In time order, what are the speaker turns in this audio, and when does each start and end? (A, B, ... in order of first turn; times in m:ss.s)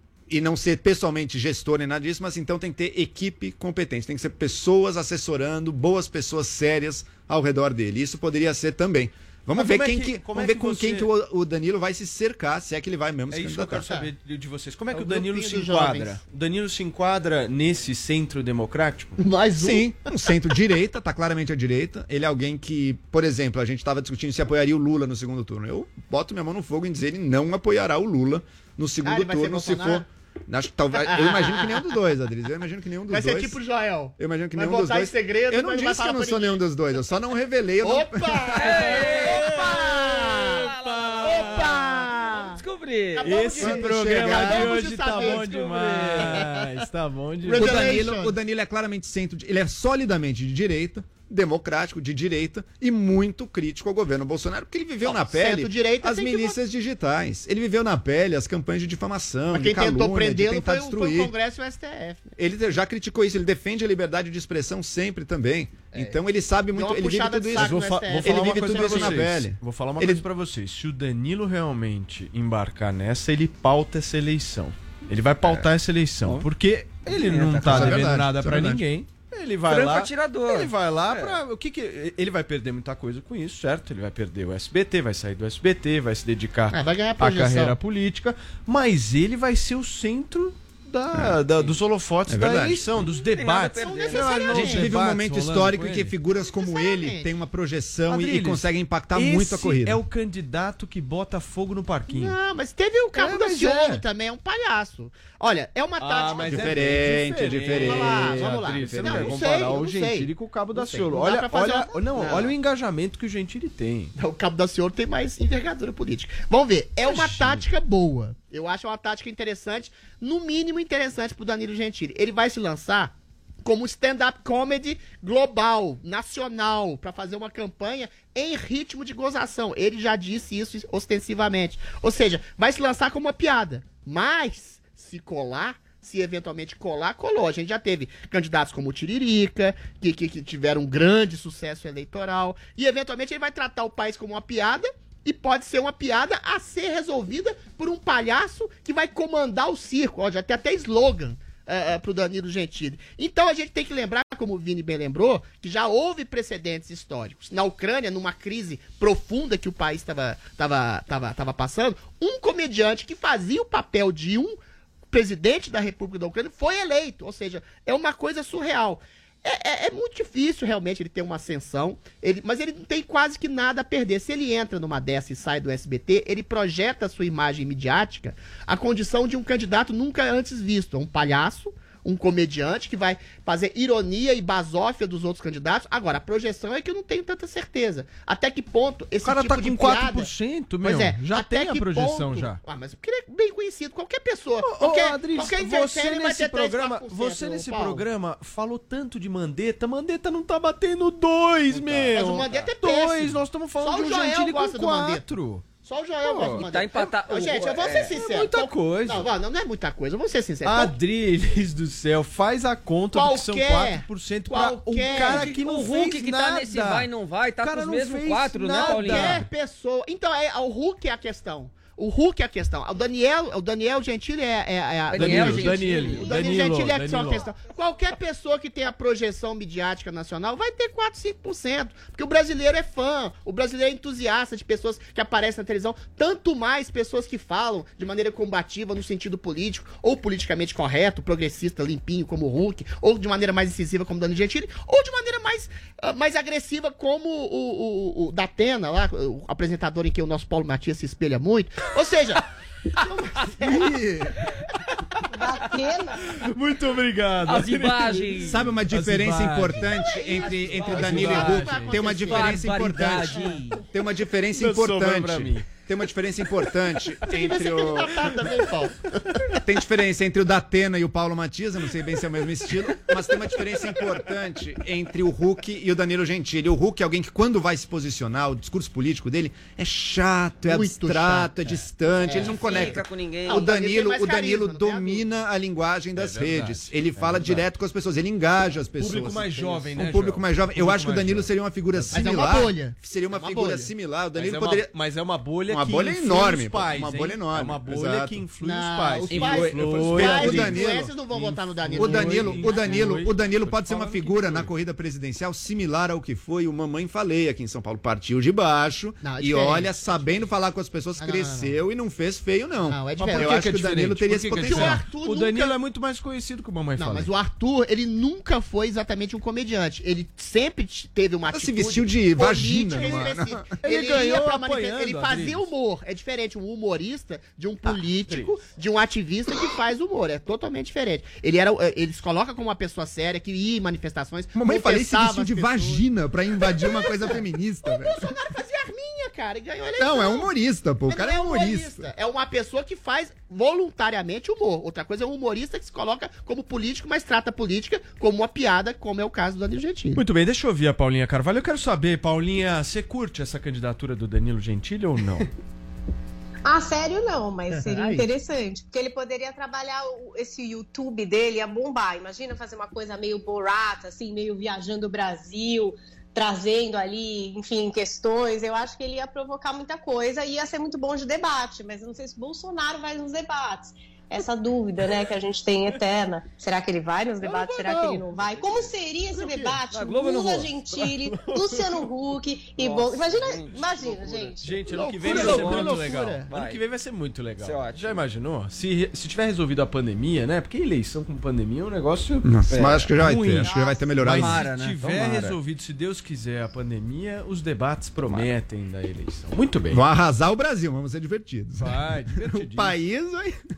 0:00.3-0:13.9 A
0:09.5-0:11.1 B
0:13.3-0:19.2 B
0:14.9-0:16.2 C
0:19.2-0:19.9 C
0:19.6-0:33.6 A
0:29.0-0:30.0 C
0:30.9-0:31.8 C
0:33.1-0:36.6 C
0:34.2-0:39.0 A
0:37.8-0:40.7 C
0:38.5-0:43.3 D
0:39.2-0:42.0 B
0:41.2-0:42.6 C
0:43.2-0:45.5 C
0:43.2-0:48.0 B
0:43.6-0:44.7 A
0:45.1-0:46.4 D
0:46.2-0:46.6 C
0:47.4-0:48.4 C
0:47.5-1:01.3 A
0:55.0-0:56.6 C
0:59.5-1:02.3 C
1:02.4-1:10.2 A
1:06.7-1:09.2 C
1:07.5-1:36.1 B
1:17.0-1:18.2 D
1:17.6-1:18.8 A
1:19.7-1:21.4 D
1:26.7-1:27.8 C
1:31.1-1:31.4 A
1:32.3-1:32.8 A
1:32.9-1:34.6 D
1:33.8-1:35.0 C
1:34.5-1:40.0 A
1:36.4-1:37.3 C
1:38.1-1:42.4 B
1:42.1-1:47.0 C
1:43.1-1:44.0 B
1:46.0-1:54.1 B
1:46.5-1:49.5 A
1:47.7-1:52.5 C
1:54.2-2:03.1 C
1:57.0-1:57.6 B
2:03.6-2:44.6 C
2:45.1-3:10.3 C
3:09.2-3:12.6 B
3:10.8-3:18.0 C
3:14.6-3:25.7 B
3:21.7-3:22.7 D
3:21.8-3:31.0 C
3:26.2-3:26.6 B
3:26.6-3:28.1 D
3:28.0-3:29.3 B
3:30.6-3:37.1 B
3:33.1-3:35.5 C
3:35.1-3:39.4 D
3:37.6-3:39.5 B
3:38.8-4:12.4 C
3:45.1-3:46.6 D
3:45.1-3:47.5 B
4:13.0-4:13.9 C
4:13.6-4:14.4 A
4:15.3-4:16.2 E
4:16.3-4:19.9 B
4:17.4-4:18.7 D
4:18.4-4:28.2 A
4:20.1-4:22.8 C
4:20.3-4:23.8 D
4:20.8-4:22.0 B
4:24.6-4:25.6 B
4:27.3-4:29.0 C
4:29.5-4:54.9 A
4:40.7-4:45.3 C
4:42.4-4:43.6 D
4:46.2-4:47.6 B
4:49.0-4:52.5 B
4:52.1-4:53.8 C
4:54.4-5:04.7 B
4:55.7-4:58.4 A
4:58.6-5:03.0 C
4:59.3-5:01.1 A
5:02.0-5:15.0 A
5:09.2-5:10.4 C
5:11.2-5:11.8 C
5:12.9-5:13.8 C
5:13.2-5:17.3 B
5:14.6-5:15.8 C
5:17.0-5:36.0 C
5:21.5-5:23.7 A
5:23.8-5:25.7 B
5:27.8-5:28.6 B
5:34.5-5:38.3 A
5:36.6-5:40.5 C
5:40.0-5:42.1 A
5:41.1-5:50.2 C
5:50.1-5:55.5 B
5:56.6-6:24.8 E
5:57.7-5:58.2 C
6:17.4-6:18.8 C
6:19.4-6:19.8 C
6:19.9-6:21.0 D
6:21.3-6:21.8 B
6:22.8-6:24.6 D
6:24.6-6:40.0 B
6:24.9-6:26.5 C
6:25.2-6:25.9 D
6:26.5-6:26.8 D
6:27.6-6:28.2 D
6:32.4-6:34.6 A
6:32.7-6:33.1 D
6:33.6-6:35.6 D
6:38.2-6:38.5 D
6:39.9-6:43.6 A
6:41.8-6:43.0 B